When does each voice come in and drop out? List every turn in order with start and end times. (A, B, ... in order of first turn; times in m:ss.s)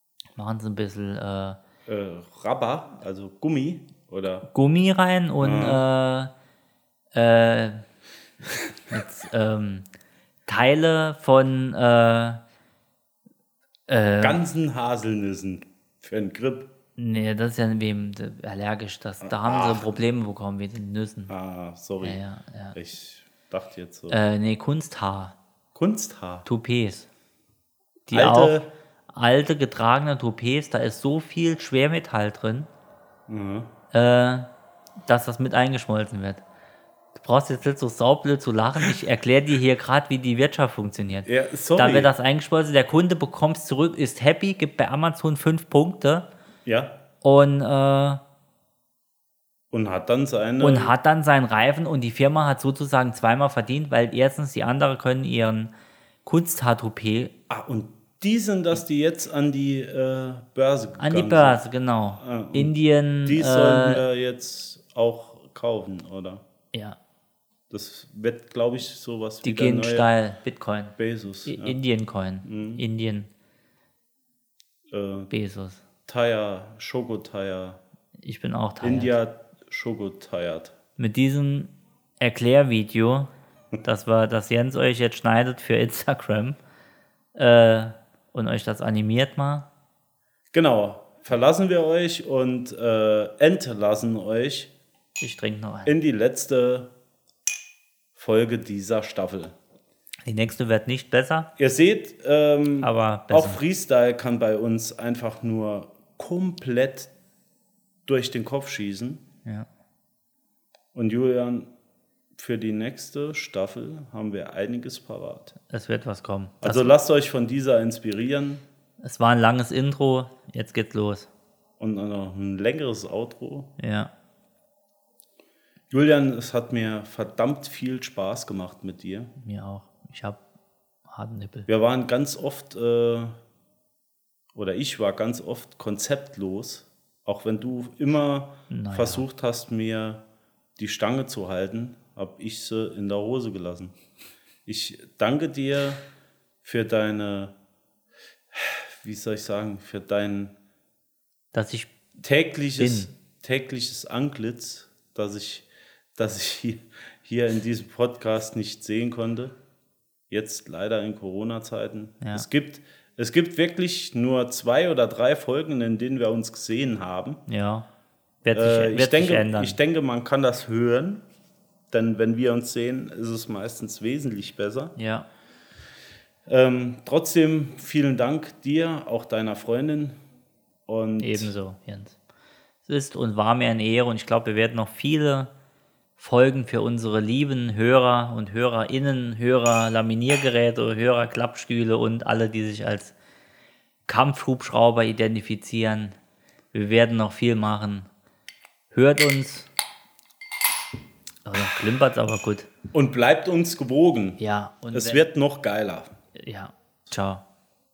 0:00.4-0:01.6 A
0:01.8-0:04.5 B
0:04.5-0:06.3 A
0:05.4-0:05.8 B
0:07.1-0:07.8 A
0:08.9-0:09.8 A
0:10.4-0:12.4 A
0:13.9-0:14.4 A
0:14.2-0:16.7 B
0:17.0-0:21.3 A
0:19.2-0:19.9 B
0:21.3-0:22.2 B
0:22.0-0:22.8 A
0:22.7-0:24.2 B
0:24.1-0:25.4 A
0:25.7-0:26.4 B
0:26.4-0:27.1 A
0:28.1-0:32.7 A
0:28.1-0:28.7 B
0:33.3-0:33.7 B
0:33.9-0:34.5 A
0:35.0-0:36.4 A
0:37.1-0:46.3 A
0:41.2-0:42.1 B
0:46.6-0:47.0 B
0:47.2-0:48.2 A
0:49.7-0:50.9 B
0:50.6-0:55.7 A
0:56.2-0:57.3 A
0:57.5-1:01.6 B
1:01.0-1:04.0 A
1:02.2-1:02.7 B
1:03.2-1:06.4 B
1:06.7-1:07.0 A
1:07.7-1:10.1 B
1:09.4-1:10.9 A
1:11.0-1:11.8 B
1:11.4-1:13.3 A
1:12.4-1:12.8 B
1:14.9-1:15.3 B
1:15.3-1:15.8 A
1:16.0-1:17.8 B
1:18.2-1:19.1 A
1:18.8-1:20.7 B
1:21.0-1:23.3 A
1:23.8-1:26.6 A
1:27.3-1:29.7 A
1:30.5-1:34.7 B
1:35.2-1:35.9 A
1:35.8-1:36.9 B
1:38.1-1:39.5 B
1:40.2-1:41.5 A
1:41.6-1:47.1 B
1:42.8-1:43.6 A
1:48.0-1:49.2 B
1:50.9-1:51.7 B
1:52.4-1:55.5 B
1:55.7-1:57.0 A
1:56.6-1:58.6 B
1:59.0-2:01.3 A
2:01.8-2:03.7 B
2:03.8-2:04.1 A
2:05.9-2:09.3 B
2:09.4-2:10.4 A
2:11.1-2:11.7 A
2:11.7-2:13.4 B
2:14.5-2:20.2 B
2:18.7-2:19.2 A
2:20.8-2:23.9 B
2:24.6-2:26.0 B
2:26.6-2:27.5 B
2:28.5-2:30.5 B
2:31.5-2:31.9 A
2:32.2-2:39.6 B
2:32.8-2:33.1 A
2:40.3-2:47.4 B
2:42.2-2:42.4 A
2:47.5-2:47.9 A
2:48.4-2:49.8 A
2:48.5-2:51.2 B
2:51.9-2:55.0 B
2:55.0-2:55.3 A
2:56.5-3:00.2 B
3:00.9-3:01.5 B
3:01.2-3:02.2 A
3:02.8-3:05.5 A
3:06.2-3:13.1 A
3:14.1-3:16.2 A
3:16.7-3:18.1 A
3:18.9-3:19.7 A
3:21.4-3:22.7 A
3:22.9-3:24.4 B
3:24.4-3:25.2 A
3:24.9-3:26.1 B
3:26.3-3:27.4 A